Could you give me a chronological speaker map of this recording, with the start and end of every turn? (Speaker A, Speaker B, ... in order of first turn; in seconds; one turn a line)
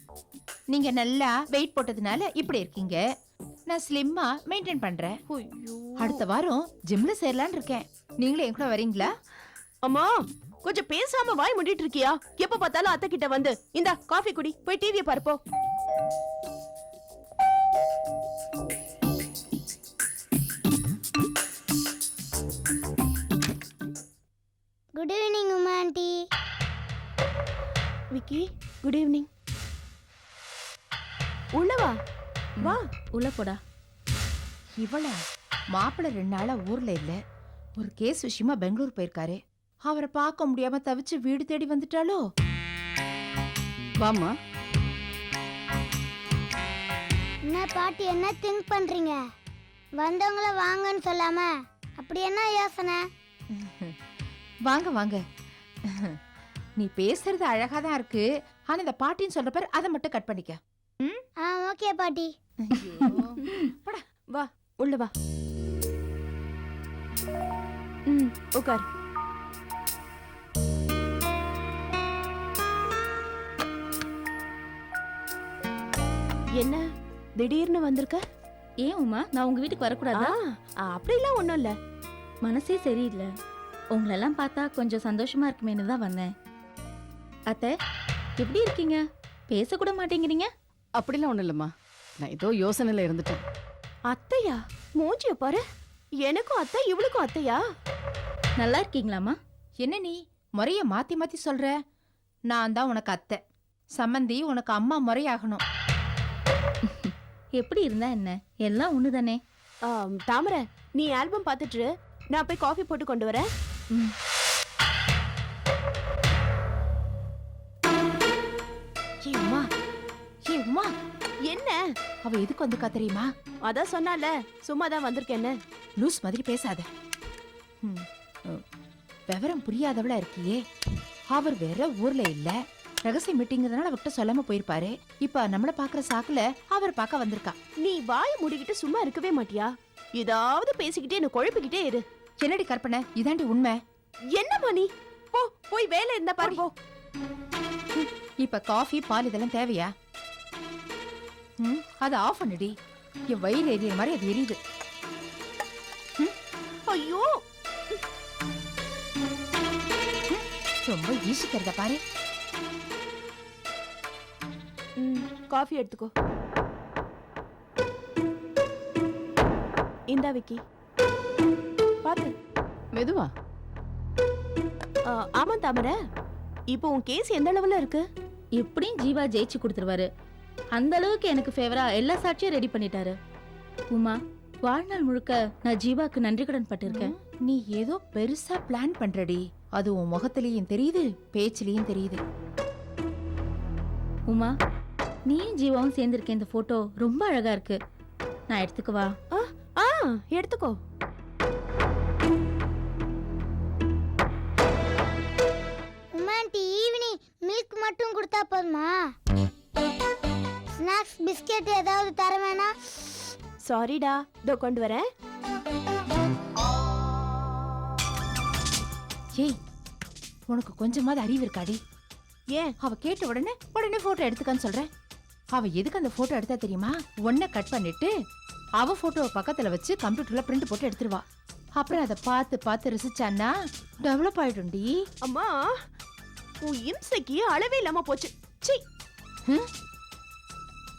Speaker A: 0.7-3.0
Speaker A: 3.7-5.1
Speaker B: 5.3-6.2
Speaker A: 6.0-9.1
Speaker B: 9.8-15.4
Speaker C: 25.0-26.1
Speaker B: 28.1-29.3
Speaker B: 31.6-31.9
Speaker D: 32.6-33.6
Speaker A: 34.8-35.1
Speaker A: 35.8-37.1
Speaker A: 37.8-42.2
Speaker E: 44.0-44.3
Speaker C: 47.5-49.0
Speaker C: 50.0-51.4
Speaker C: 52.0-52.9
Speaker A: 53.5-53.9
Speaker A: 54.7-55.2
Speaker A: 56.8-61.2
Speaker C: 61.7-62.2
Speaker A: 62.6-63.3
Speaker B: 64.3-65.1
Speaker B: 68.1-68.8
Speaker B: 77.4-78.2
Speaker D: 78.8-80.3
Speaker B: 80.2-81.7
Speaker D: 82.4-83.3
Speaker D: 84.0-86.3
Speaker D: 88.4-90.5
Speaker E: 91.0-93.4
Speaker B: 94.1-95.6
Speaker B: 96.2-97.6
Speaker D: 98.6-99.4
Speaker A: 99.8-101.7
Speaker A: 102.5-103.4
Speaker A: 104.0-105.6
Speaker D: 106.9-109.4
Speaker B: 109.9-113.4
Speaker A: 119.2-119.7
Speaker A: 120.5-120.9
Speaker B: 121.5-121.8
Speaker A: 122.2-123.3
Speaker B: 123.6-125.5
Speaker A: 126.0-126.8
Speaker A: 127.8-128.6
Speaker A: 129.3-130.6
Speaker A: 131.3-132.5
Speaker A: 133.1-137.5
Speaker B: 137.8-142.0
Speaker A: 142.4-143.8
Speaker B: 144.3-146.7
Speaker A: 148.0-149.9
Speaker A: 151.6-152.7
Speaker A: 153.3-154.6
Speaker B: 156.9-157.3
Speaker A: 160.3-162.0
Speaker B: 165.0-166.1
Speaker B: 170.1-170.6
Speaker B: 172.0-172.3
Speaker E: 172.9-173.3
Speaker B: 175.1-175.9
Speaker B: 176.7-178.0
Speaker D: 178.6-180.1
Speaker D: 180.8-183.1
Speaker D: 183.9-187.1
Speaker A: 187.2-192.2
Speaker D: 195.3-197.8
Speaker D: 198.5-199.1
Speaker B: 199.3-200.7
Speaker C: 206.2-208.9
Speaker C: 210.8-212.6
Speaker B: 213.7-215.0
Speaker A: 220.5-221.8
Speaker A: 222.8-224.9
Speaker A: 225.6-228.1
Speaker A: 228.8-231.2
Speaker A: 231.8-233.5
Speaker A: 234.0-234.9
Speaker B: 235.2-235.6
Speaker B: 236.6-238.8